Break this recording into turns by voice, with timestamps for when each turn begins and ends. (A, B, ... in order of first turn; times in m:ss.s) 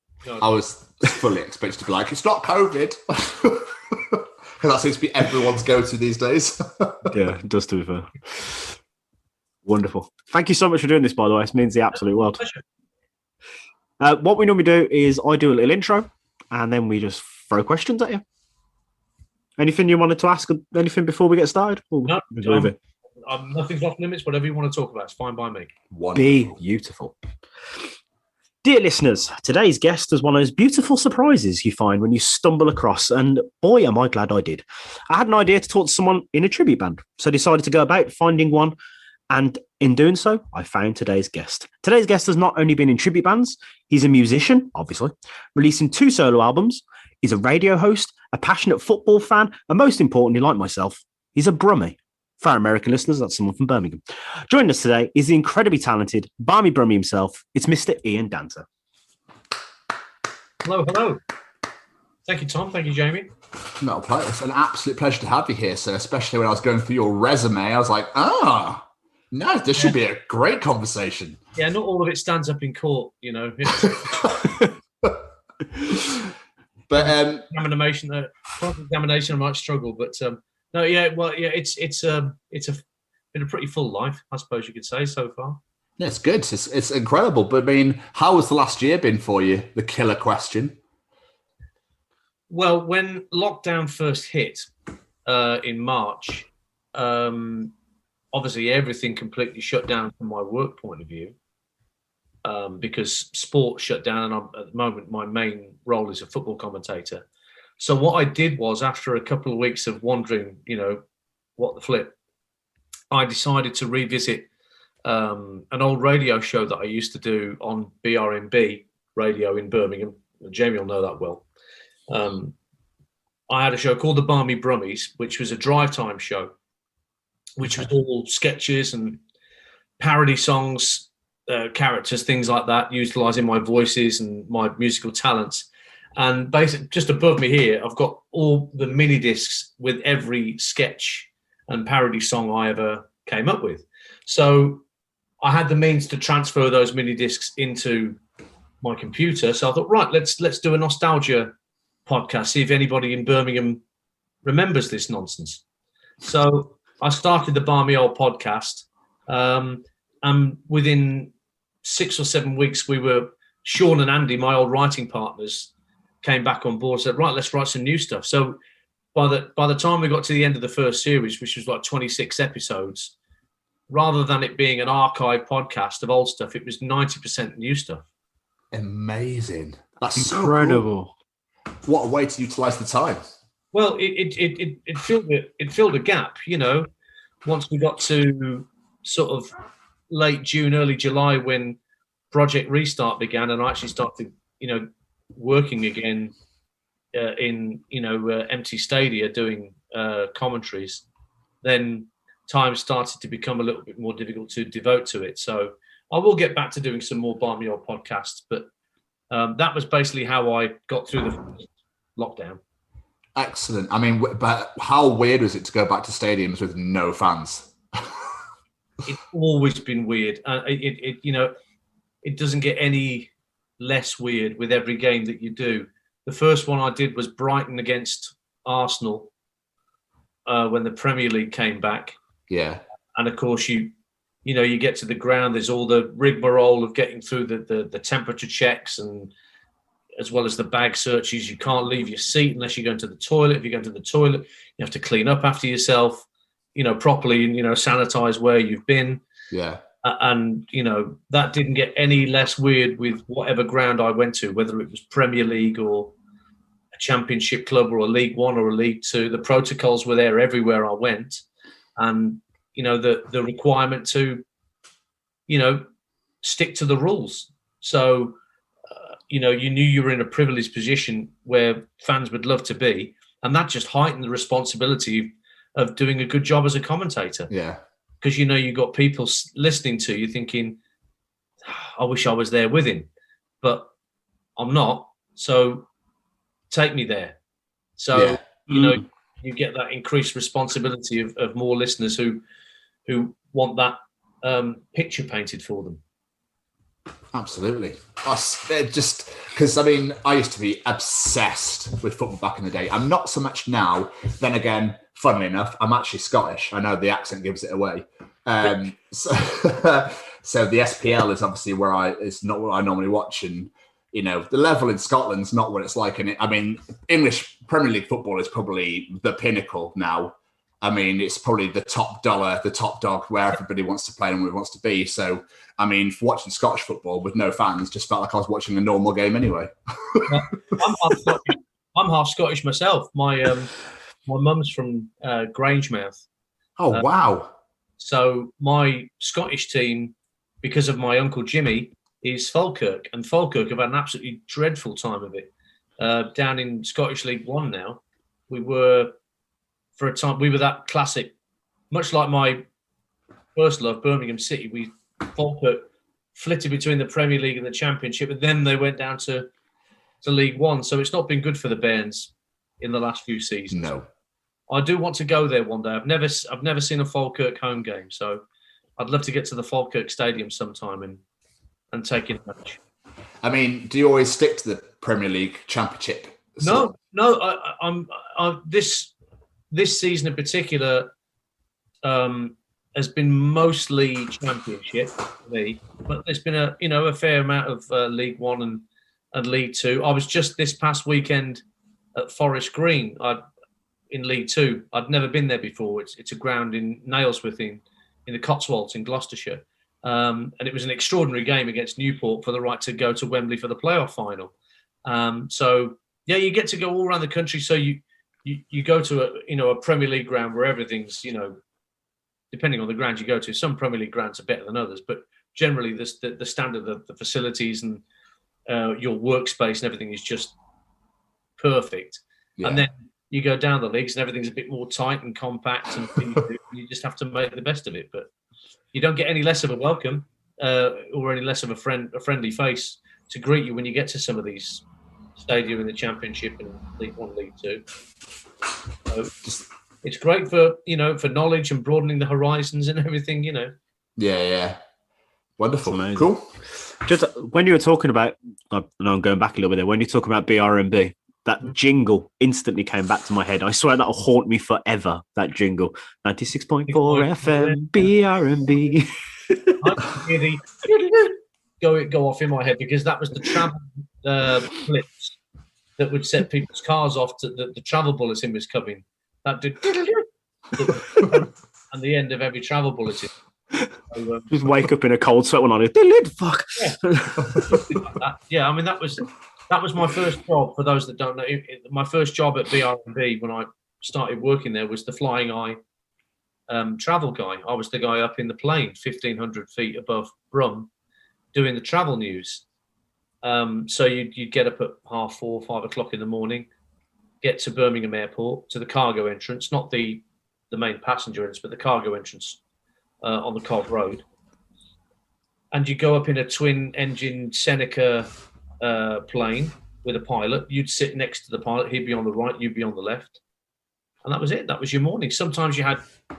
0:00.2-0:00.6 A
0:00.4-0:07.2 B
0:07.1-0:08.7 C
0:09.6-0:12.4 C
0:11.9-0:12.6 A
0:14.0-0:18.2 C
0:19.6-0:22.8 C
0:22.0-0:25.7 A
0:25.9-0:26.6 B
0:26.1-0:27.2 C
0:28.6-0:38.8 C
0:39.3-0:58.6 C
1:00.6-1:01.2 A
1:02.2-1:03.3 A
1:03.8-1:11.4 B
1:11.6-1:14.2 A
1:13.8-1:15.2 B
1:15.8-1:16.1 B
1:16.9-1:17.5 B
1:17.0-1:22.8 A
1:23.3-1:25.6 A
1:26.0-1:30.8 B
1:32.5-1:34.7 A
1:35.3-1:37.7 A
1:38.3-1:41.4 A
1:42.4-1:47.3 A
1:47.8-1:51.0 A
1:51.6-1:52.1 A
1:53.1-1:54.5 A
1:55.0-2:01.4 A
2:02.1-2:02.6 A
2:03.5-2:06.5 A
2:07.6-2:09.2 A
2:10.0-2:24.8 A
2:25.4-2:28.2 A
2:28.8-2:31.5 A
2:32.1-2:33.8 A
2:34.4-2:35.6 A
2:36.2-2:41.3 A
2:41.8-2:45.7 A
2:46.2-2:48.6 A
2:49.2-2:53.1 A
2:53.9-2:58.0 A
2:58.7-3:00.8 B
3:00.2-3:01.1 C
3:01.8-3:03.2 B
3:03.7-3:06.9 A
3:07.4-3:09.5 A
3:10.1-3:11.8 A
3:12.3-3:16.3 A
3:17.1-3:21.0 A
3:21.6-3:28.7 A
3:29.3-3:32.6 A
3:33.4-3:38.1 B
3:39.0-3:41.5 A
3:42.2-3:49.3 A
3:50.5-3:52.2 A
3:52.5-3:52.8 B
3:53.2-3:53.9 A
3:54.4-3:59.3 A
4:00.2-4:09.2 A
4:09.5-4:09.8 B
4:10.0-4:16.1 A
4:17.0-4:21.4 A
4:22.0-4:24.4 A
4:25.5-4:25.8 A
4:26.4-4:28.4 A
4:29.0-4:37.5 A
4:37.5-4:37.8 B
4:38.2-4:40.8 A
4:41.6-4:43.1 A
4:43.6-4:43.9 A
4:44.6-4:45.9 A
4:46.7-4:47.4 A
4:48.0-4:52.4 A
4:48.1-4:48.4 B
4:48.7-4:49.0 C
4:53.1-4:56.0 A
4:57.3-5:30.3 B
5:30.3-5:33.7 A
5:34.3-5:36.2 A
5:36.8-5:37.5 B
5:38.0-5:49.1 A
5:50.0-5:51.3 A
5:51.9-5:52.6 A
5:53.6-5:59.5 A
6:00.2-6:03.9 A
6:03.7-6:04.1 B
6:04.7-6:08.4 A
6:09.0-6:11.2 A
6:11.9-6:12.8 A
6:13.4-6:16.9 B
6:16.6-6:19.1 A
6:19.7-6:21.1 A
6:22.0-6:31.6 A
6:32.2-6:33.4 A
6:34.1-6:44.5 A
6:45.0-6:51.6 A
6:52.5-6:58.0 A
6:58.7-7:00.5 A
7:01.6-7:08.3 A
7:02.6-7:02.9 B
7:08.9-7:14.8 A
7:15.4-7:17.8 A
7:19.1-7:19.3 A
7:20.0-7:23.7 A
7:24.2-7:24.8 B
7:25.6-7:26.5 B
7:25.9-7:26.3 C
7:27.0-7:39.7 C
7:36.9-7:38.1 A
7:39.8-7:45.4 A
7:46.0-7:53.3 A
7:54.1-7:54.5 A
7:54.5-7:57.9 C
7:57.7-8:05.8 A
8:06.7-8:10.9 A
8:11.5-8:12.6 A
8:13.4-8:16.7 A
8:17.4-8:22.6 A
8:23.2-8:24.2 A
8:25.7-8:28.3 A
8:28.8-8:33.4 A
8:34.2-8:36.0 A